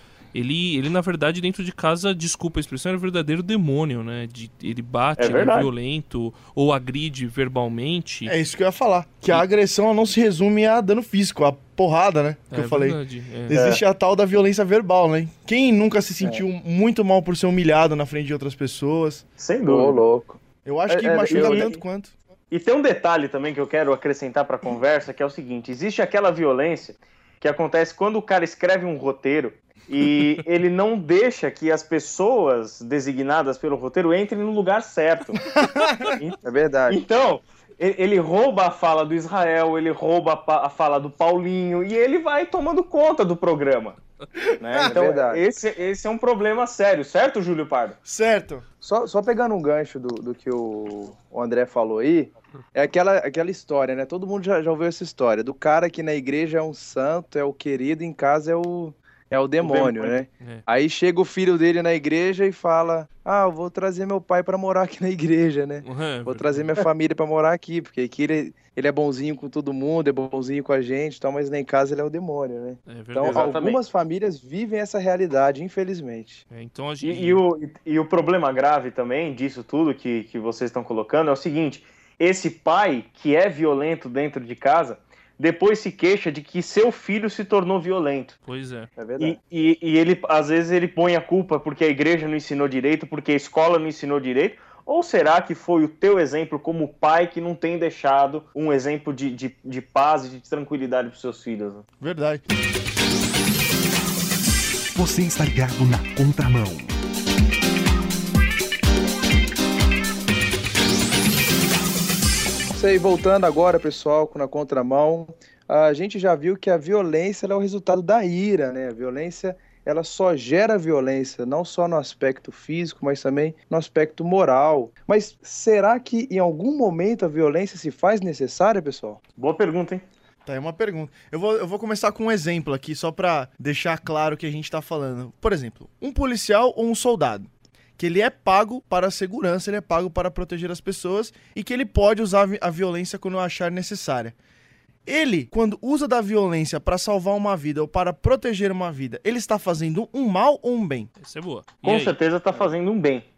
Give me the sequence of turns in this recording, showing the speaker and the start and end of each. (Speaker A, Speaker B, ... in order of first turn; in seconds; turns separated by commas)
Speaker A: 0.3-8.3, Speaker B: 5.2-5.7, Speaker C: 8.2-19.2, Speaker A: 12.5-13.6, Speaker B: 13.5-13.8, Speaker B: 19.4-20.0, Speaker D: 19.6-21.7, Speaker C: 20.6-22.1, Speaker B: 21.3-21.8, Speaker B: 22.5-35.5, Speaker C: 35.5-36.2, Speaker B: 36.1-44.0, Speaker D: 36.4-37.0, Speaker C: 44.4-44.9, Speaker B: 44.6-48.0, Speaker D: 44.8-45.4, Speaker C: 48.0-48.6, Speaker D: 48.8-76.4, Speaker B: 59.6-60.2, Speaker A: 60.3-60.6, Speaker A: 65.8-66.7, Speaker A: 72.9-73.5, Speaker B: 73.2-73.8, Speaker A: 76.5-77.4, Speaker B: 77.0-88.4, Speaker A: 88.5-88.9, Speaker D: 89.0-89.4, Speaker B: 89.2-101.8, Speaker C: 102.0-102.4, Speaker E: 104.9-106.9, Speaker D: 112.7-129.2, Speaker B: 129.4-130.1, Speaker C: 130.4-144.3, Speaker C: 145.1-151.1, Speaker A: 151.2-152.2, Speaker B: 151.8-153.2